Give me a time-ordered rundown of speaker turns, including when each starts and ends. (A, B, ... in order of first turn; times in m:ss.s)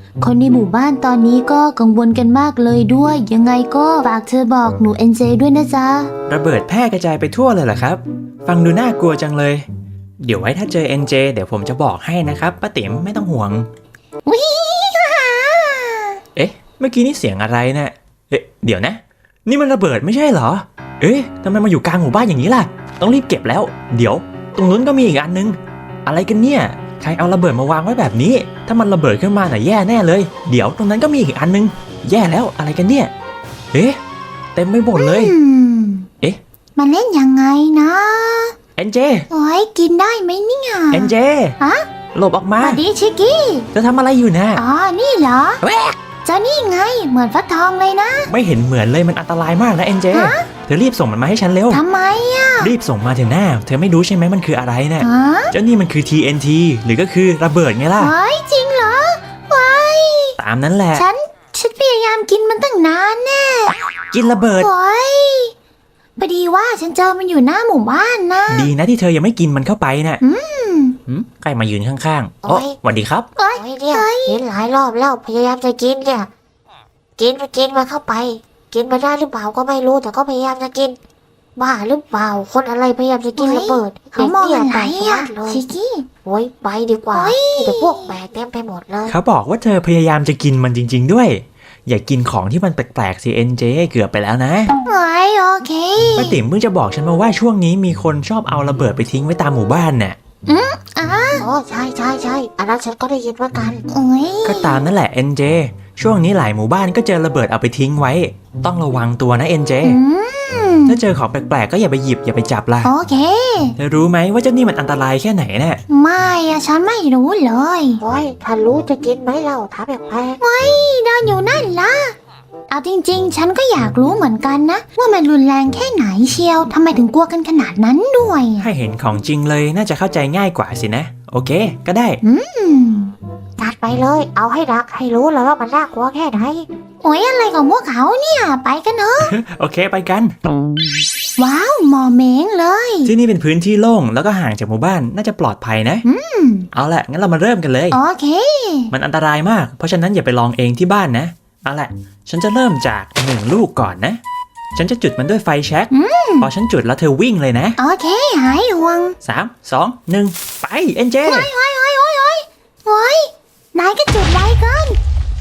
0:00.2-0:06.1 A
0:06.3-0:09.6 B
0:10.2-0:13.7 B
0:14.3-0:16.2 A
0:16.4-0:33.1 B
0:33.7-0:34.0 B
0:34.6-0:35.3 B
0:35.0-0:36.1 A
0:36.8-0:38.5 A
0:38.8-0:39.3 B
0:39.3-0:41.8 A
0:40.9-0:41.6 B
0:42.1-0:42.8 B
0:42.6-0:43.7 A
0:43.7-0:44.6 B
0:44.6-0:45.6 A
0:45.6-0:46.0 B
0:46.2-0:48.3 A
0:48.3-0:51.8 B
0:50.1-0:50.5 A
0:51.7-0:52.7 A
0:52.6-0:58.1 B
0:55.0-0:55.5 A
0:58.0-1:00.4 A
1:00.4-1:01.1 B
1:00.9-1:03.8 A
1:04.1-1:04.7 B
1:04.6-1:05.5 A
1:06.2-1:08.7 A
1:08.5-1:10.2 B
1:10.2-1:11.0 A
1:11.1-1:13.3 B
1:12.4-1:12.8 C
1:13.4-1:14.4 A
1:13.6-1:16.3 C
1:17.2-1:21.0 C
1:21.6-1:25.6 C
1:23.4-1:26.1 A
1:26.2-1:29.2 C
1:27.1-1:28.1 A
1:29.1-1:34.7 B
1:34.8-1:36.4 A
1:36.2-1:40.2 B
1:40.5-1:41.5 A
1:41.4-1:43.8 C
1:43.9-1:44.8 A
1:44.4-1:50.0 B
1:49.8-1:51.0 A
1:50.9-1:52.9 B
1:52.8-1:53.8 A
1:53.8-1:55.8 B
1:55.9-1:58.0 A
1:58.0-2:00.4 C
2:00.4-2:02.2 A
2:02.7-2:08.7 A
2:08.6-2:12.2 B
2:12.2-2:13.1 A
2:13.6-2:16.7 C
2:17.0-2:19.4 A
2:19.2-2:20.3 B
2:21.4-2:23.1 A
2:23.0-2:26.0 B
2:26.0-2:26.7 A
2:26.7-2:28.0 B
2:27.9-2:28.9 A
2:28.9-2:34.2 B
2:34.8-2:37.8 B
2:35.9-2:36.5 A
2:37.8-2:39.2 A
2:39.2-2:41.5 B
2:41.3-2:45.0 A